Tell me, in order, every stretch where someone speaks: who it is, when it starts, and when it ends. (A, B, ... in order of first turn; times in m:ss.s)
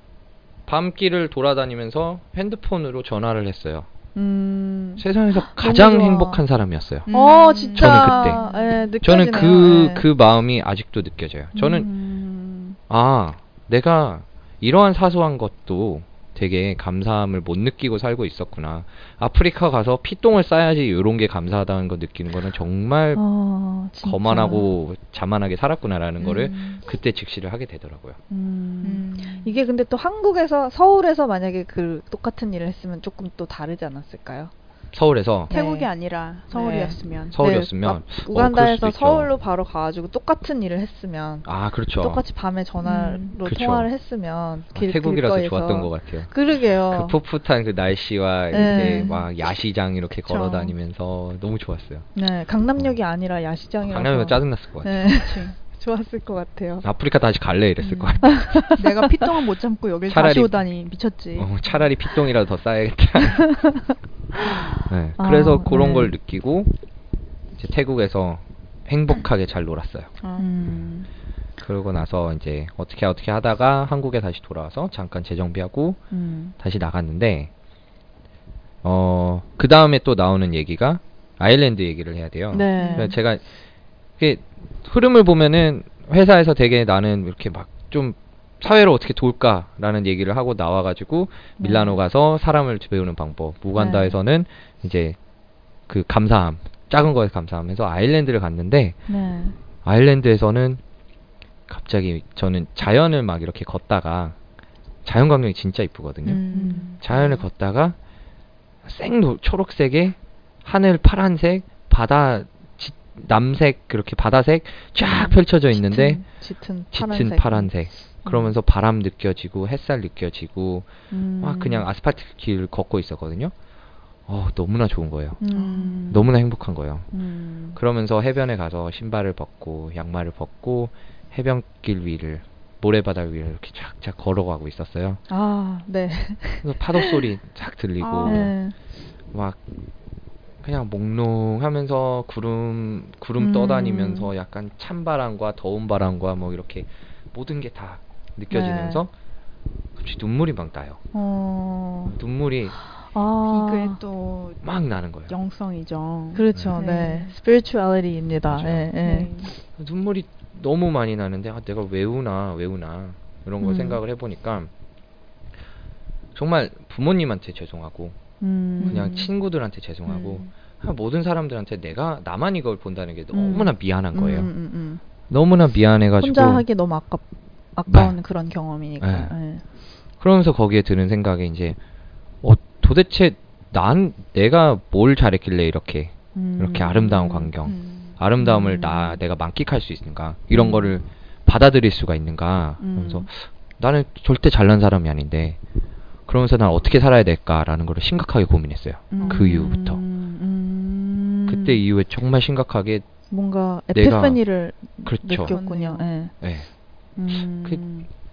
0:00.7-0:03.9 A
0:04.1-0:06.4 B
0:05.0-0:07.1 A
0:07.1-0:08.8 C
0:07.1-0:10.0 B
0:07.8-0:08.4 A
0:09.0-0:11.9 A
0:11.5-0:12.8 B
0:12.9-0:23.2 A
0:23.1-0:24.6 B
0:24.0-0:28.2 A
0:26.2-0:26.8 B
0:28.3-0:34.5 B
0:28.8-0:29.6 C
0:34.9-0:35.5 A
0:35.5-0:37.4 C
0:35.5-0:35.9 B
0:36.5-0:41.4 B
0:37.3-0:39.3 A
0:41.4-0:42.2 A
0:42.0-0:47.2 B
0:42.8-0:43.3 C
0:43.4-0:43.9 A
0:44.7-0:46.3 A
0:46.9-0:52.0 A
0:48.5-0:49.2 B
0:48.5-0:49.2 C
0:50.3-0:50.7 C
0:52.1-0:56.9 B
0:53.8-0:55.0 A
0:55.2-0:55.6 C
0:56.8-0:58.5 A
0:57.8-1:01.6 C
0:58.2-0:59.1 B
1:00.1-1:00.6 A
1:01.4-1:03.6 A
1:03.4-1:06.1 B
1:04.8-1:06.7 A
1:07.5-1:10.1 A
1:10.2-1:10.5 C
1:10.4-1:11.1 B
1:11.6-1:16.0 A
1:16.1-1:16.5 B
1:16.6-1:17.5 A
1:18.8-1:23.4 A
1:22.5-1:23.2 B
1:22.8-1:23.1 C
1:24.2-1:35.2 A
1:31.6-1:32.0 B
1:33.8-1:34.2 B
1:35.9-1:39.0 A
1:39.1-1:39.6 B
1:39.8-1:40.8 A
1:41.7-1:44.4 A
1:45.0-1:46.4 A
1:46.2-1:47.0 C
1:46.4-1:47.0 B
1:47.0-1:48.0 A
1:48.8-1:56.2 A
1:55.0-1:57.7 B
1:56.9-2:00.9 A
2:01.1-2:01.9 B
2:01.4-2:03.5 A
2:04.3-2:05.4 A
2:05.4-2:06.3 B
2:05.5-2:06.1 C
2:06.1-2:07.1 A
2:07.1-2:07.8 B
2:07.7-2:15.2 A
2:15.3-2:17.2 B
2:16.6-2:18.5 A
2:18.0-2:18.5 C
2:18.2-2:18.7 B
2:19.3-2:19.6 A
2:20.6-2:29.1 A
2:23.4-2:24.3 B
2:28.5-2:29.0 B
2:30.0-2:31.0 A
2:31.1-2:32.1 B
2:32.1-2:32.8 A
2:33.1-2:34.0 B
2:33.5-2:34.6 C
2:34.6-2:35.3 A
2:35.3-2:37.3 C
2:36.3-2:39.3 B
2:38.5-2:38.9 A
2:39.0-2:39.5 C
2:39.8-2:44.7 A
2:43.6-2:43.9 C
2:46.3-2:48.2 A
2:48.4-2:49.3 B
2:48.8-2:49.1 C
2:48.9-2:54.5 A
2:50.1-2:50.5 C
2:53.3-2:55.0 B
2:55.3-2:56.6 A
2:56.2-2:57.2 B
2:57.8-2:59.6 B
2:57.9-2:58.2 A
2:59.0-2:59.3 A
3:00.2-3:01.8 A
3:02.4-3:15.6 A
3:06.3-3:07.5 B
3:07.6-3:08.1 C
3:08.4-3:09.2 B
3:10.5-3:10.9 B
3:12.8-3:13.2 B
3:16.3-3:20.0 A
3:19.1-3:21.8 B
3:19.1-3:19.6 C
3:21.5-3:23.0 A
3:23.3-3:26.3 B
3:23.9-3:24.4 A
3:25.0-3:25.6 A
3:25.5-3:26.0 C
3:26.4-3:26.7 A
3:27.2-3:28.1 B